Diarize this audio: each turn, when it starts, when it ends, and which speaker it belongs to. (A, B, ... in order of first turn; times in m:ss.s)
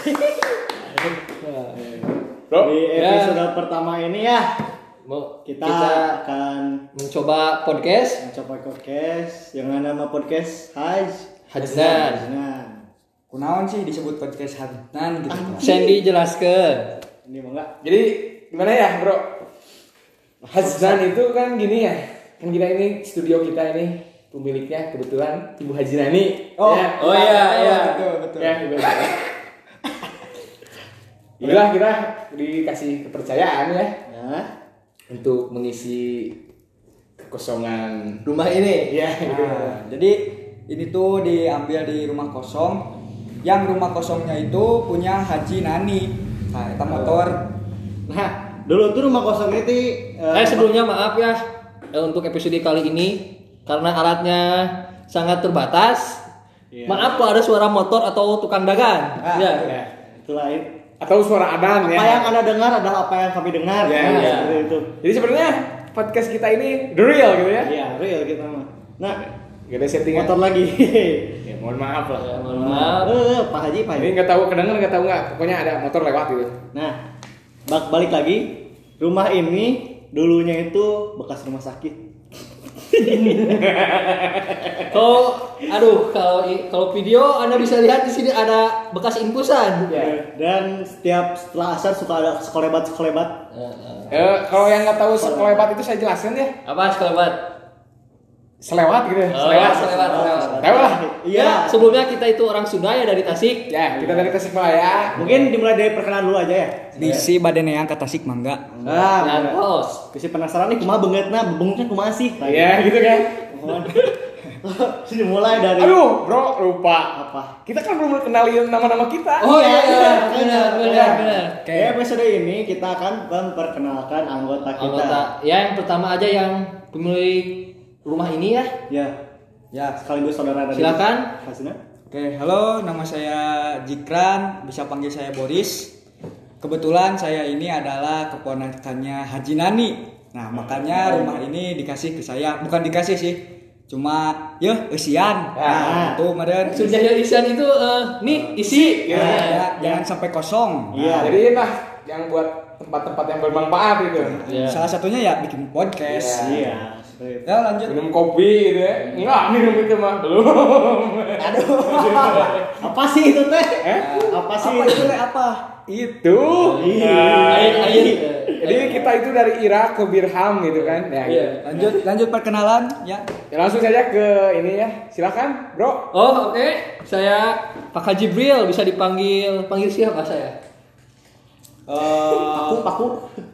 0:00.9-0:02.0 A
0:02.5-0:02.7 B
0:02.6-0:04.6 C
0:02.9-0:03.4 A
0:05.0-0:06.1 A
0:05.4-0:06.8 C
0:06.9-0:08.2 A
0:08.2-0:12.8 C
0:11.5-0:12.2 A
0:13.3-0:15.7 D
0:15.3-0:16.0 C
0:15.6-0:17.0 A
0:17.2-0:17.7 C
0:17.8-0:19.2 B
0:20.5-0:27.0 B
0:20.6-0:20.9 D
0:26.6-0:29.0 D
0:27.0-0:28.0 A
0:28.4-0:29.2 B
0:31.4-0:31.7 C
0:31.4-0:33.9 B
0:34.1-0:34.5 C
0:35.1-0:36.4 B
0:37.2-0:39.7 B
0:38.4-0:38.9 A
0:39.2-0:42.8 D
0:43.4-0:47.4 D
0:48.1-0:50.8 C
0:50.3-0:51.4 A
0:51.9-0:56.2 A
0:56.7-0:57.3 C
0:56.9-0:59.7 A
0:59.2-0:59.7 D
1:00.1-1:00.7 C
1:01.0-1:02.3 B
1:01.8-1:04.9 C
1:03.8-1:07.7 B
1:04.0-1:04.6 A
1:07.6-1:09.2 C
1:09.1-1:10.4 B
1:10.1-1:11.4 C
1:11.4-1:12.4 B
1:12.1-1:13.1 A
1:12.5-1:14.2 C
1:14.0-1:16.5 B
1:17.7-1:22.0 C
1:22.9-1:23.8 C
1:23.4-1:24.8 B
1:24.9-1:29.9 A
1:29.9-1:33.4 C
1:29.9-1:30.2 B
1:33.5-1:34.2 A
1:34.1-1:36.5 B
1:35.0-1:35.7 C
1:36.6-1:37.5 A
1:38.6-1:39.9 B
1:39.3-1:43.7 A
1:39.4-1:41.9 C
1:40.6-1:41.0 B
1:43.7-1:45.2 B
1:44.0-1:44.3 C
1:45.2-1:46.9 C
1:45.2-1:45.5 A
1:47.0-1:49.4 D
1:47.0-1:47.2 A
1:48.7-1:49.6 C
1:49.1-1:50.0 A
1:50.1-1:52.8 C
1:52.4-1:53.4 B
1:53.4-1:56.0 C
1:55.7-1:59.5 B
1:57.1-1:57.5 C
1:59.4-2:05.3 C
1:59.4-2:01.6 A
2:01.6-2:02.0 B
2:04.7-2:08.7 A
2:08.9-2:09.1 C
2:09.7-2:10.0 D
2:10.0-2:11.8 C
2:10.7-2:11.3 A
2:12.1-2:15.9 D
2:16.6-2:26.9 D
2:20.6-2:21.4 C
2:25.5-2:25.9 B
2:25.7-2:26.2 C
2:26.7-2:29.6 A
2:28.2-2:31.3 D
2:28.8-2:29.5 B
2:29.1-2:30.0 C
2:30.9-2:31.4 C
2:31.2-2:34.4 B
2:34.2-2:36.6 D
2:34.4-2:34.8 A
2:36.0-2:36.6 B
2:36.4-2:37.5 C
2:37.4-2:38.0 D
2:37.9-2:42.7 B
2:41.4-2:42.6 D
2:42.8-2:45.2 C
2:43.8-2:44.1 B
2:44.0-2:45.6 D
2:45.9-2:47.8 B
2:46.4-2:49.0 A
2:46.7-2:49.0 C
2:48.6-2:51.6 B
2:50.8-2:51.9 A
2:51.6-2:53.3 D
2:53.5-2:56.1 B
2:56.1-3:00.5 A
3:01.9-3:02.9 D
3:02.3-3:03.2 C